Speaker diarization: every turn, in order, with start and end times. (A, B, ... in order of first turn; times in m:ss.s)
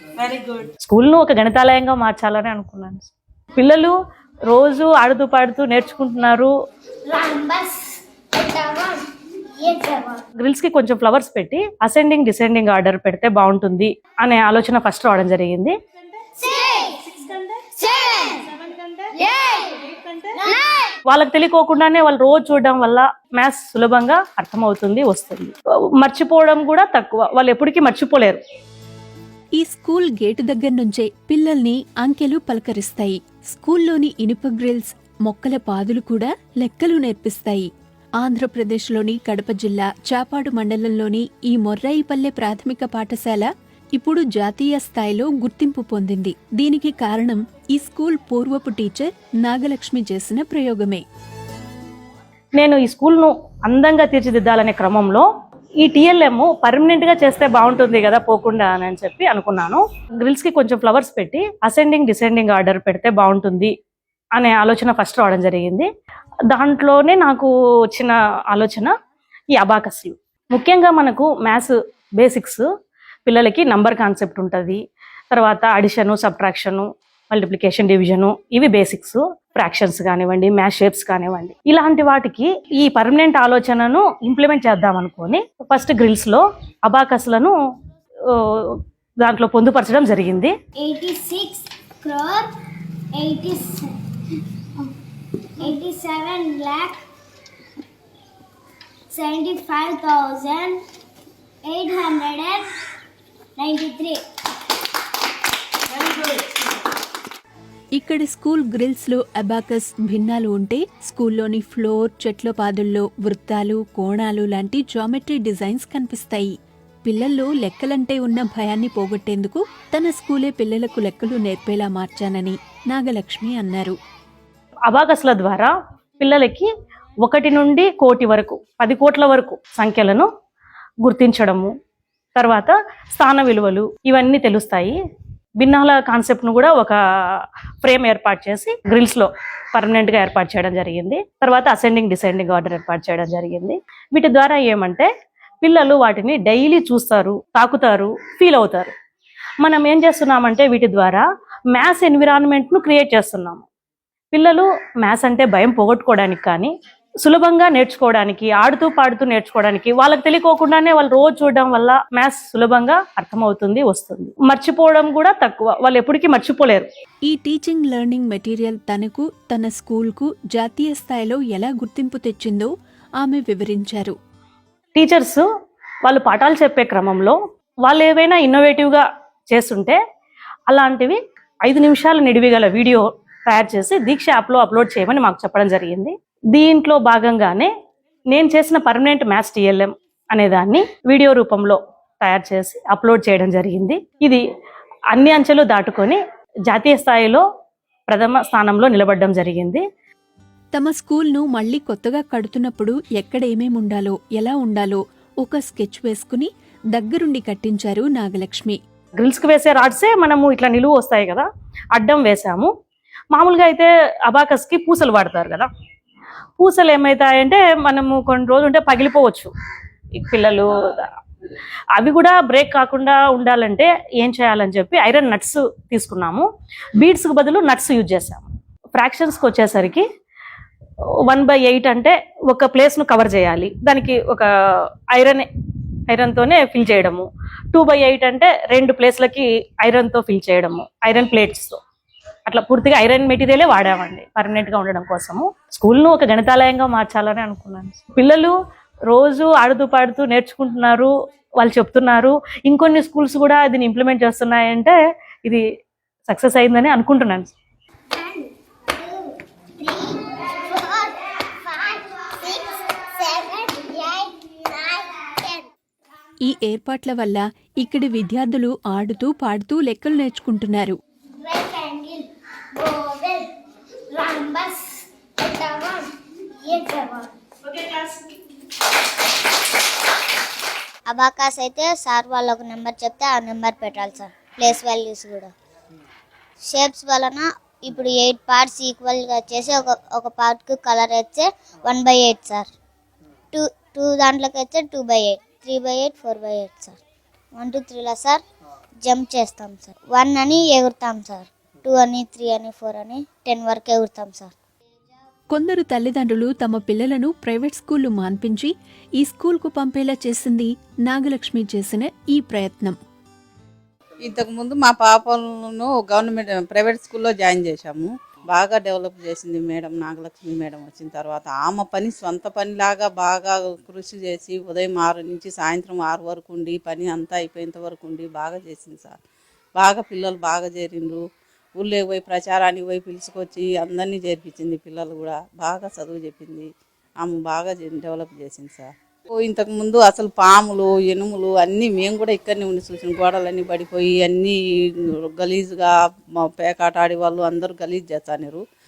0:00.3-0:03.9 A
0:04.5-0:06.5 A
0:07.1-0:09.0 B
0:09.6-0:10.2 B
0:10.4-0:15.7 A
0:16.4-0:17.2 B
0:17.5-0:19.1 A
0:17.8-0:18.4 B
0:19.2-0:19.8 B
0:19.9-0:20.3 A
0:21.1-0:28.4 A
0:29.6-0:51.0 C
0:52.6-0:55.2 A
0:55.8-1:03.7 A
1:04.4-1:05.9 A
1:06.5-1:08.9 A
1:09.5-1:12.6 A
1:13.2-1:27.5 A
1:28.3-1:30.5 A
1:30.8-1:32.5 B
1:33.1-1:33.9 B
1:35.6-1:37.0 B
1:39.1-1:40.8 B
1:41.6-1:42.7 B
1:43.6-1:44.2 B
1:47.9-2:04.0 C
2:04.9-2:06.6 A
2:07.2-2:10.2 A
2:11.0-2:11.7 A
2:12.4-2:15.0 A
2:15.6-2:25.1 A
2:25.6-2:28.9 A
2:29.6-2:33.6 A
2:34.3-2:36.7 A
2:37.2-2:46.9 A
2:47.2-2:54.2 C
2:54.9-2:55.4 A
2:56.0-3:00.0 A
3:00.7-3:07.7 A
3:08.3-3:14.4 A
3:15.1-3:17.4 A
3:18.1-3:19.8 A
3:20.7-3:28.8 C
3:29.2-3:32.7 A
3:33.3-3:35.7 A
3:36.6-3:39.5 A
3:40.2-3:41.1 A
3:42.0-3:46.4 A
3:47.0-3:50.0 A
3:51.3-3:54.5 A
3:55.1-3:55.5 A
3:56.1-4:01.8 A
4:02.5-4:08.5 A
4:09.1-4:15.6 A
4:16.3-4:17.5 A
4:18.2-4:18.5 B
4:19.0-4:19.2 B
4:19.8-4:25.5 B
4:26.4-4:31.0 C
4:31.4-4:33.5 B
4:34.1-4:37.4 B
4:37.7-4:38.2 A
4:41.1-4:45.5 D
4:46.6-4:52.7 D
4:53.5-4:57.0 D
4:57.5-4:58.4 D
4:59.0-5:04.5 D
5:05.5-5:13.0 C
5:14.2-5:29.1 E
5:29.8-5:31.2 E
5:31.8-5:36.7 E
5:37.2-5:48.6 E